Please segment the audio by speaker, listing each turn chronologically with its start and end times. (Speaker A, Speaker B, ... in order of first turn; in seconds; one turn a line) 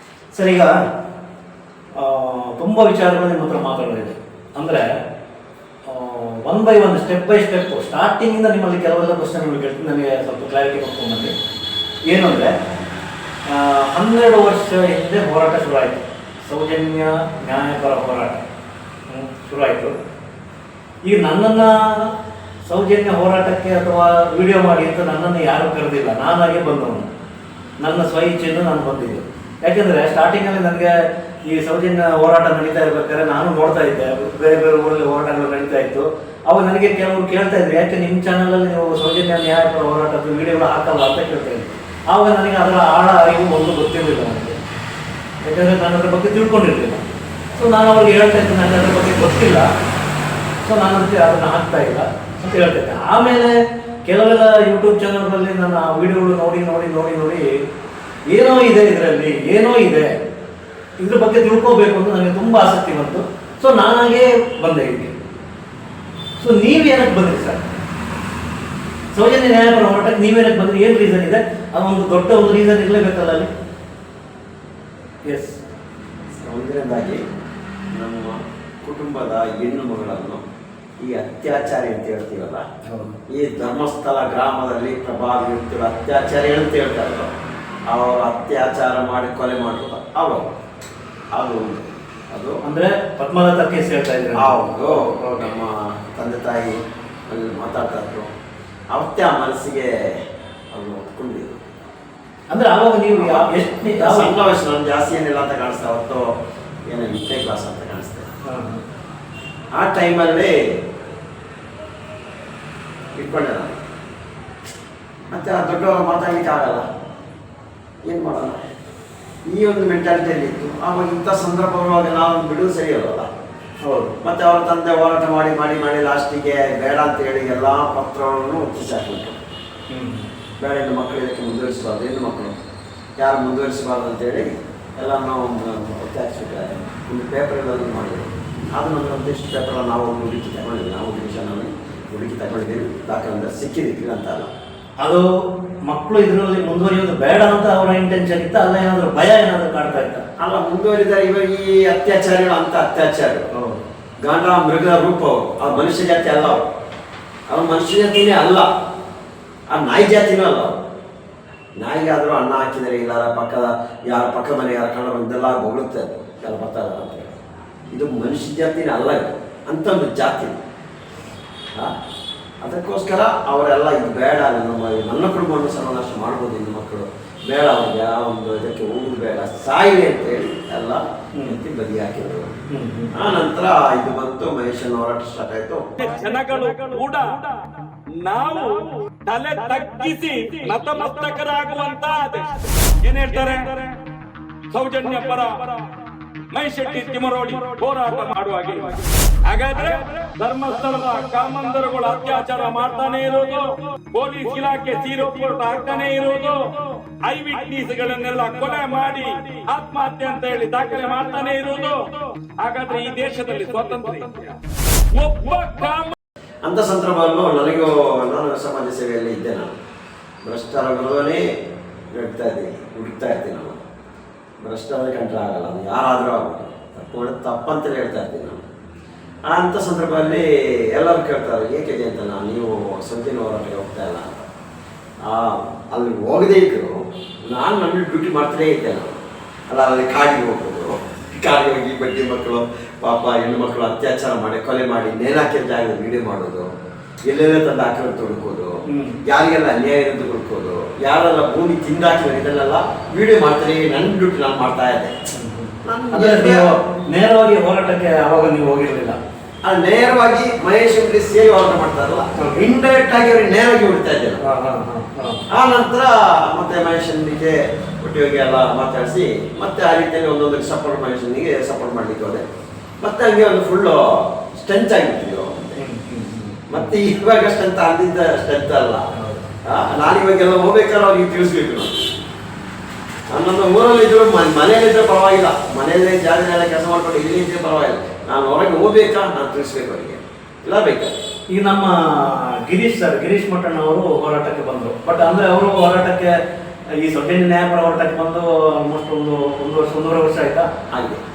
Speaker A: 0.3-0.8
Speaker A: 2.0-4.8
Speaker A: 5.9-11.3
Speaker A: 12.1-12.5
Speaker A: 13.5-18.4
Speaker A: 19.1-19.9
Speaker A: 21.0-22.1
Speaker A: 22.6-27.1
Speaker A: 27.8-31.0
Speaker A: 31.5-44.5
Speaker A: 45.5-47.0
Speaker A: 47.6-49.7
Speaker A: 50.6-53.5
Speaker A: 54.1-57.6
Speaker A: 58.3-60.1
Speaker A: 61.0-65.1
Speaker A: 66.4-67.6
Speaker A: 69.1-73.5
Speaker A: 75.3-75.6
Speaker B: 76.4-77.2
Speaker B: 77.9-80.4
Speaker B: 81.0-82.7
Speaker A: 82.9-83.2
Speaker B: 83.3-87.3
Speaker B: 87.9-90.5
Speaker B: 91.3-92.6
Speaker A: 92.6-95.5
Speaker B: 94.4-98.3
Speaker B: 98.9-100.2
Speaker B: 100.7-101.6
Speaker A: 102.5-104.3
Speaker B: 103.2-106.3
Speaker B: 106.9-108.3
Speaker A: 108.5-108.8
Speaker B: 109.8-110.6
Speaker B: 113.2-113.8
Speaker B: 115.3-116.9
Speaker B: 118.0-118.6
Speaker B: 119.5-123.3
Speaker A: 123.8-124.2
Speaker B: 124.2-129.4
Speaker A: 129.9-130.3
Speaker B: 130.6-132.6
Speaker B: 133.2-144.5
Speaker A: 145.0-145.3
Speaker A: 145.9-150.2
Speaker B: 150.4-153.5
Speaker A: 153.5-153.8
Speaker B: 154.2-156.7
Speaker B: 157.5-158.7
Speaker B: 159.7-160.8
Speaker B: 161.8-167.4
Speaker B: 167.9-170.6
Speaker B: 172.6-182.5
Speaker A: 182.7-183.2
Speaker B: 183.2-186.1
Speaker C: 186.0-187.5
Speaker C: 188.1-193.9
Speaker C: 194.7-195.6
Speaker C: 196.5-206.6
Speaker C: 207.3-212.0
Speaker C: 212.6-214.5
Speaker C: 215.1-216.1
Speaker B: 216.6-219.7
Speaker B: 220.4-221.4
Speaker B: 222.1-223.8
Speaker B: 224.6-228.6
Speaker B: 229.5-234.5
Speaker B: 235.2-239.2
Speaker B: 239.7-246.7
Speaker B: 247.3-255.2
Speaker A: 248.9-249.2
Speaker A: 255.3-259.2
Speaker B: 255.8-256.7
Speaker B: 259.6-264.4
Speaker A: 262.4-262.7
Speaker A: 264.4-265.4
Speaker B: 265.5-272.4
Speaker B: 273.0-275.8
Speaker A: 275.8-276.9
Speaker B: 276.7-279.1
Speaker A: 279.1-279.4
Speaker B: 279.7-282.1
Speaker B: 283.3-291.1
Speaker A: 291.5-296.3
Speaker A: 297.0-300.7
Speaker B: 300.9-301.2